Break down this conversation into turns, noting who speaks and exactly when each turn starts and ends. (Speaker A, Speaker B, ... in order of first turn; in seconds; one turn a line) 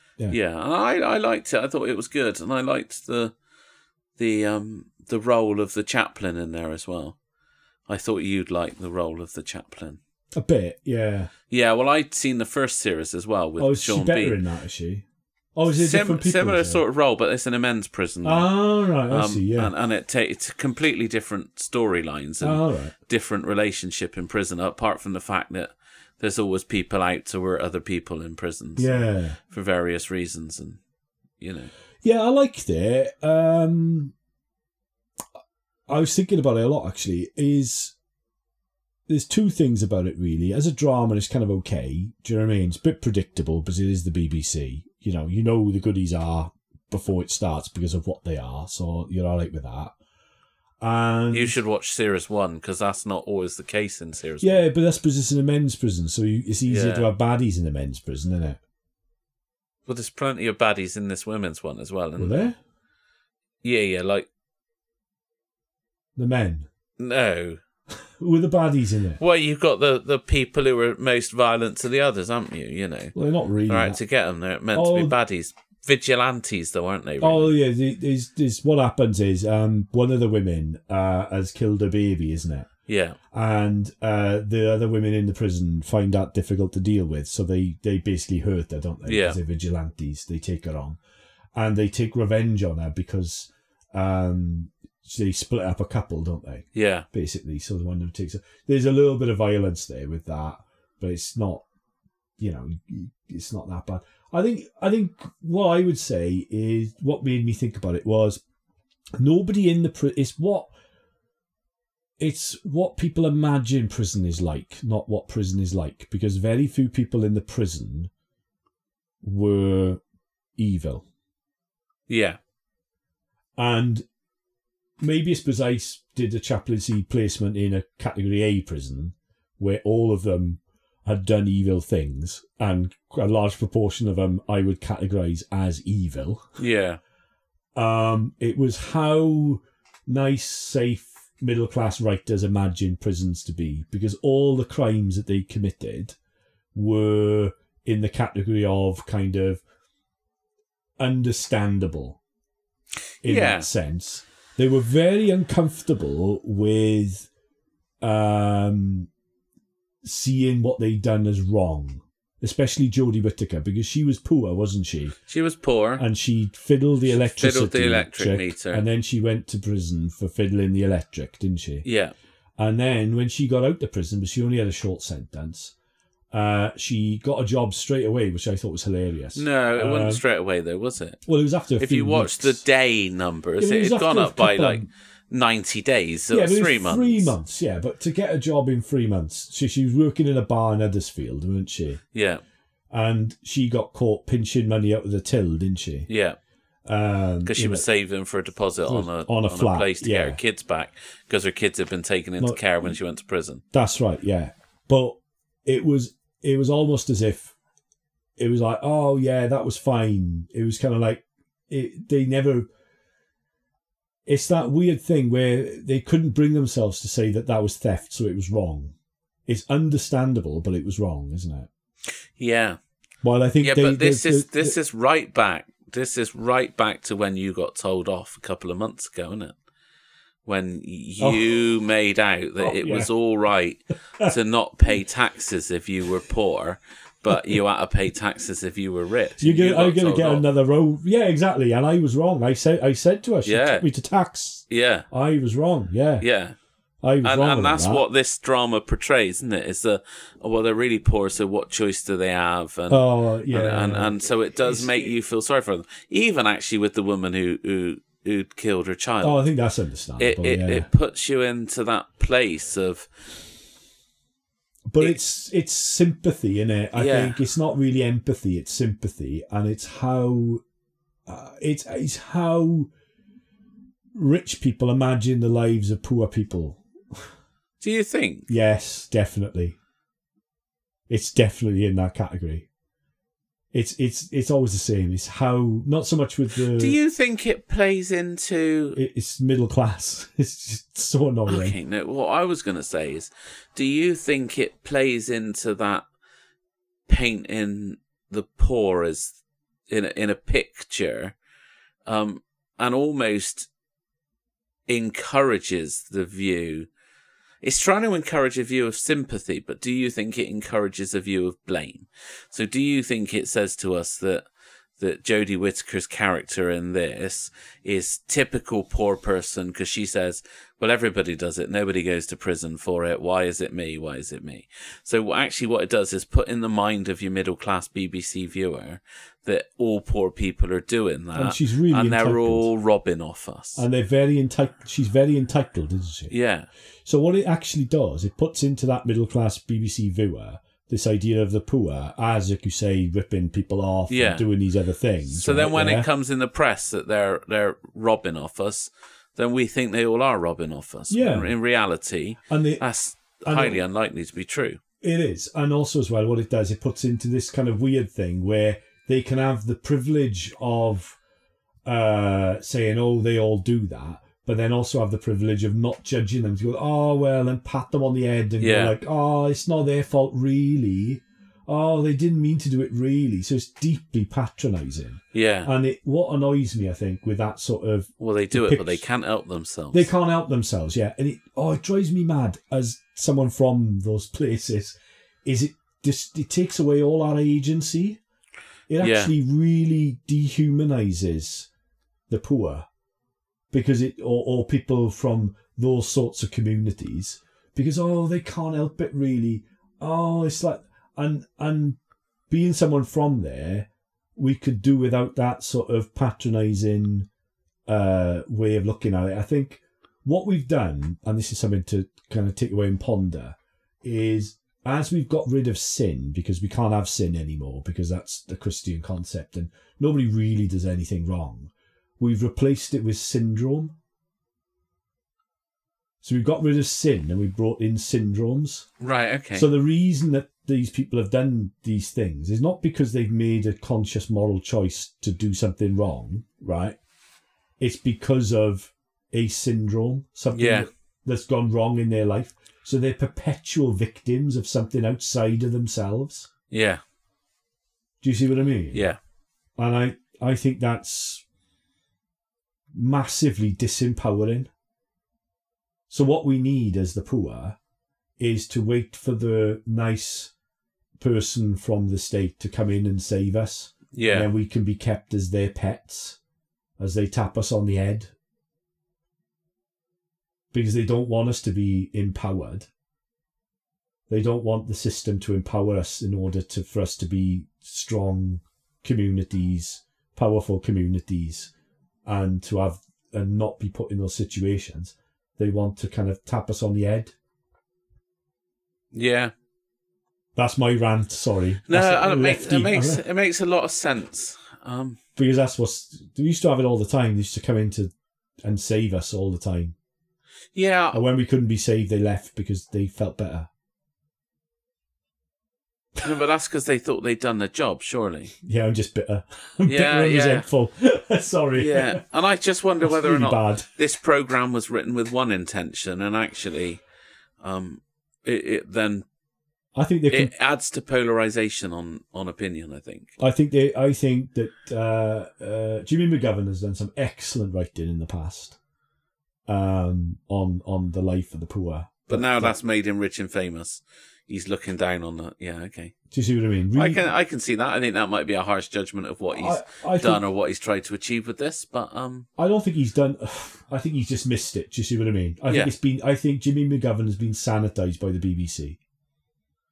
Speaker A: 0.3-3.3
Speaker A: 4.2-7.2
Speaker A: 7.9-10.0
Speaker B: 10.4-11.3
Speaker A: 11.5-14.4
Speaker B: 13.6-16.8
Speaker A: 15.7-18.5
Speaker B: 18.2-19.7
Speaker A: 19.1-30.8
Speaker B: 22.4-22.9
Speaker B: 28.8-29.4
Speaker A: 31.4-31.7
Speaker B: 32.0-34.1
Speaker B: 35.9-38.0
Speaker B: 39.1-49.9
Speaker B: 50.8-51.6
Speaker A: 51.3-54.7
Speaker B: 54.4-58.6
Speaker A: 56.7-57.1
Speaker A: 59.9-62.5
Speaker B: 62.2-62.6
Speaker A: 63.6-64.3
Speaker B: 66.2-66.7
Speaker A: 67.0-67.6
Speaker B: 68.2-69.2
Speaker A: 69.2-73.2
Speaker B: 73.2-74.0
Speaker A: 73.7-77.5
Speaker B: 74.7-75.1
Speaker B: 77.2-82.7
Speaker A: 82.9-83.2
Speaker B: 83.3-91.0
Speaker A: 89.1-89.4
Speaker B: 91.5-101.7
Speaker A: 96.7-97.1
Speaker B: 102.4-108.4
Speaker B: 109.2-110.7
Speaker B: 112.2-118.1
Speaker B: 119.2-120.0
Speaker B: 120.6-121.1
Speaker A: 122.1-122.4
Speaker B: 123.6-124.0
Speaker B: 125.0-136.6
Speaker A: 136.6-137.0
Speaker B: 137.8-146.2
Speaker B: 146.7-149.6
Speaker B: 151.0-152.2
Speaker A: 153.2-153.7
Speaker B: 153.2-157.3
Speaker B: 158.0-159.1
Speaker B: 160.0-165.2
Speaker A: 165.3-166.0
Speaker B: 166.0-171.8
Speaker A: 167.1-168.8
Speaker A: 171.8-172.1
Speaker B: 172.6-175.7
Speaker B: 176.3-180.2
Speaker A: 179.3-181.2
Speaker B: 181.3-182.6
Speaker A: 181.8-187.3
Speaker B: 183.6-184.9
Speaker B: 186.3-192.0
Speaker A: 192.1-192.4
Speaker B: 192.9-196.1
Speaker A: 196.1-196.4
Speaker B: 196.9-197.9
Speaker A: 197.4-203.6
Speaker B: 198.9-200.4
Speaker B: 203.7-207.5
Speaker B: 208.4-212.7
Speaker B: 214.3-218.9
Speaker B: 219.5-221.7
Speaker A: 222.3-222.8
Speaker B: 223.2-224.8
Speaker A: 223.6-229.6
Speaker A: 230.5-240.5
Speaker B: 231.2-231.5
Speaker B: 232.6-233.1
Speaker B: 239.4-246.3
Speaker A: 243.4-243.8
Speaker A: 244.7-245.1
Speaker A: 246.2-246.6
Speaker B: 247.0-248.1
Speaker A: 247.2-259.5
Speaker B: 252.9-255.1
Speaker B: 259.2-260.9
Speaker A: 260.2-263.1
Speaker B: 264.9-270.6
Speaker A: 266.9-267.4
Speaker B: 271.3-272.9
Speaker B: 274.1-277.3
Speaker A: 277.8-278.5
Speaker B: 278.5-279.8
Speaker B: 281.1-282.7
Speaker B: 283.7-287.0
Speaker A: 286.8-289.0
Speaker B: 288.9-291.8
Speaker A: 291.5-296.1
Speaker A: 297.1-299.4
Speaker A: 299.9-301.4
Speaker A: 302.1-303.7
Speaker A: 304.9-306.9
Speaker A: 307.6-314.5
Speaker A: 315.0-333.8
Speaker B: 331.4-332.7
Speaker B: 333.8-336.3
Speaker A: 336.3-336.7
Speaker B: 337.1-346.1
Speaker A: 344.1-344.5
Speaker A: 345.3-354.8
Speaker B: 351.1-351.5
Speaker B: 352.5-352.8
Speaker B: 353.4-353.8
Speaker B: 355.0-361.2
Speaker B: 361.9-379.0
Speaker A: 368.6-368.9
Speaker A: 375.3-375.7
Speaker A: 378.2-380.1
Speaker B: 379.9-388.2
Speaker B: 388.9-391.7
Speaker A: 389.0-389.3
Speaker B: 392.3-392.9
Speaker B: 393.7-402.0
Speaker B: 402.5-407.3
Speaker B: 407.9-424.0
Speaker B: 426.2-428.9
Speaker A: 429.0-429.7
Speaker B: 429.5-437.0
Speaker B: 437.8-446.5
Speaker A: 440.5-440.9
Speaker A: 446.7-447.0
Speaker B: 448.2-449.1
Speaker B: 449.8-451.4
Speaker B: 452.9-454.7
Speaker B: 456.1-457.8
Speaker B: 458.4-460.5
Speaker B: 461.2-466.4
Speaker A: 464.1-464.5
Speaker B: 467.0-468.3
Speaker B: 470.7-472.9
Speaker B: 474.3-481.7
Speaker B: 482.3-487.3
Speaker A: 489.1-489.5
Speaker B: 490.6-493.2
Speaker A: 491.9-495.2
Speaker B: 495.4-498.1
Speaker B: 498.6-499.9
Speaker A: 500.7-501.2
Speaker B: 501.1-503.7
Speaker A: 506.2-508.5
Speaker B: 508.6-512.2
Speaker A: 509.9-510.7
Speaker A: 511.8-517.0
Speaker B: 513.0-513.9
Speaker A: 517.6-519.2
Speaker B: 520.0-520.5
Speaker A: 520.3-523.3
Speaker B: 523.4-528.8
Speaker B: 529.7-532.8
Speaker A: 532.3-536.1
Speaker B: 536.3-537.2
Speaker A: 537.0-542.5
Speaker B: 539.5-540.4
Speaker B: 542.6-549.0